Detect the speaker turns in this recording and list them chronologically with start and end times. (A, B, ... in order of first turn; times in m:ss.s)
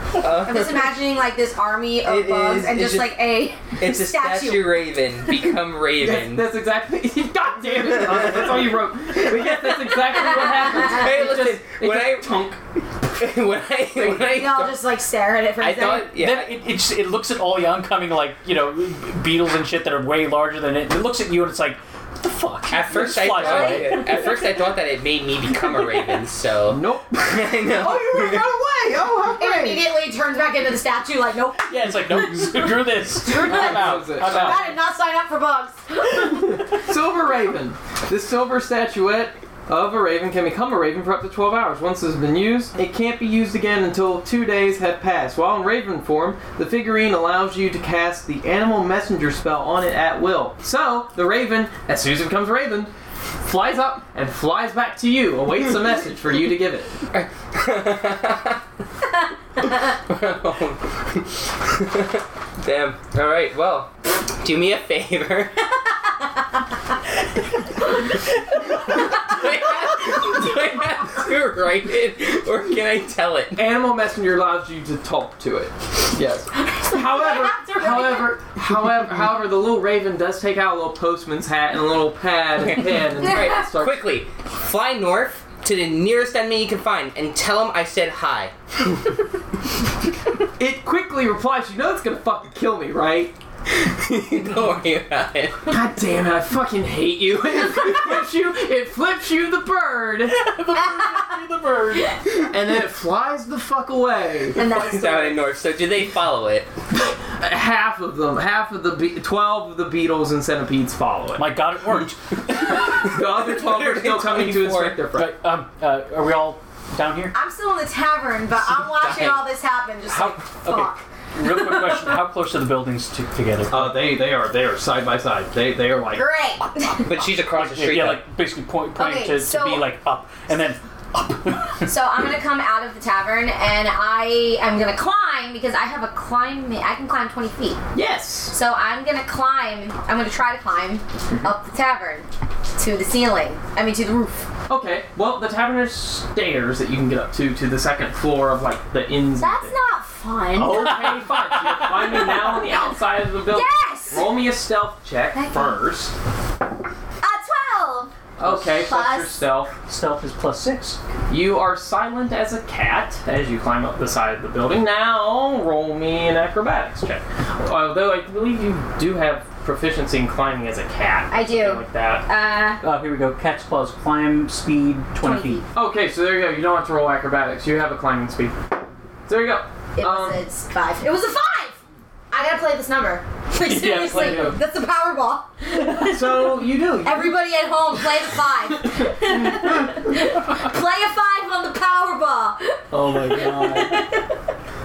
0:00.2-0:01.0 A
0:00.2-0:04.8 B
0:02.0-0:03.2 A
0:03.7-0:06.5 A
0:06.0-0:12.6 C
0:08.1-0:08.5 A
0:09.3-0:12.5 A
0:13.1-0:14.8 A
0:14.0-0:16.1 B
0:15.6-0:16.5 A
0:16.1-0:24.3 D
0:22.7-0:28.6 A
0:23.3-0:24.3 B
0:26.7-0:29.8 C
0:29.4-0:36.5 B
0:31.7-0:34.7 D
0:33.2-0:34.7 C
0:36.0-0:57.0 C
0:57.1-0:58.6 A
0:59.6-1:05.7 A
1:08.7-1:13.6 A
1:13.5-1:24.0 C
1:16.7-1:18.3 B
1:22.7-1:28.5 A
1:30.6-1:33.4 C
1:33.7-1:35.7 A
1:35.6-1:40.5 C
1:40.3-1:42.2 D
1:42.4-1:44.8 C
1:44.5-1:45.4 B
1:44.6-1:46.7 A
1:47.3-1:51.5 C
1:51.4-1:52.9 D
1:52.8-1:55.3 C
1:53.4-1:55.0 A
1:55.1-1:57.3 D
1:57.3-2:02.2 B
1:59.0-1:59.3 A
2:00.1-2:04.1 D
2:03.7-2:06.3 C
2:06.1-2:07.1 B
2:07.0-2:08.3 A
2:07.5-2:11.9 D
2:09.0-2:09.9 B
2:11.8-2:17.8 B
2:17.9-2:18.5 C
2:18.5-2:24.5 B
2:24.7-2:29.8 C
2:29.4-2:30.9 B
2:30.6-2:36.1 C
2:30.6-2:32.5 D
2:33.5-2:34.3 B
2:35.3-2:35.8 B
2:37.2-2:38.1 B
2:38.4-2:39.7 C
2:38.4-2:38.7 D
2:38.7-2:39.4 B
2:39.9-2:41.0 D
2:41.3-2:52.3 C
2:51.3-2:52.8 B
2:52.8-2:55.6 D
2:55.2-2:55.7 B
2:55.7-2:58.6 C
2:59.2-3:00.4 C
3:00.0-3:01.8 B
3:02.3-3:06.4 B
3:03.6-3:04.5 D
3:03.8-3:04.6 C
3:06.0-3:07.4 C
3:07.0-3:14.4 B
3:09.3-3:09.9 C
3:12.9-3:14.1 C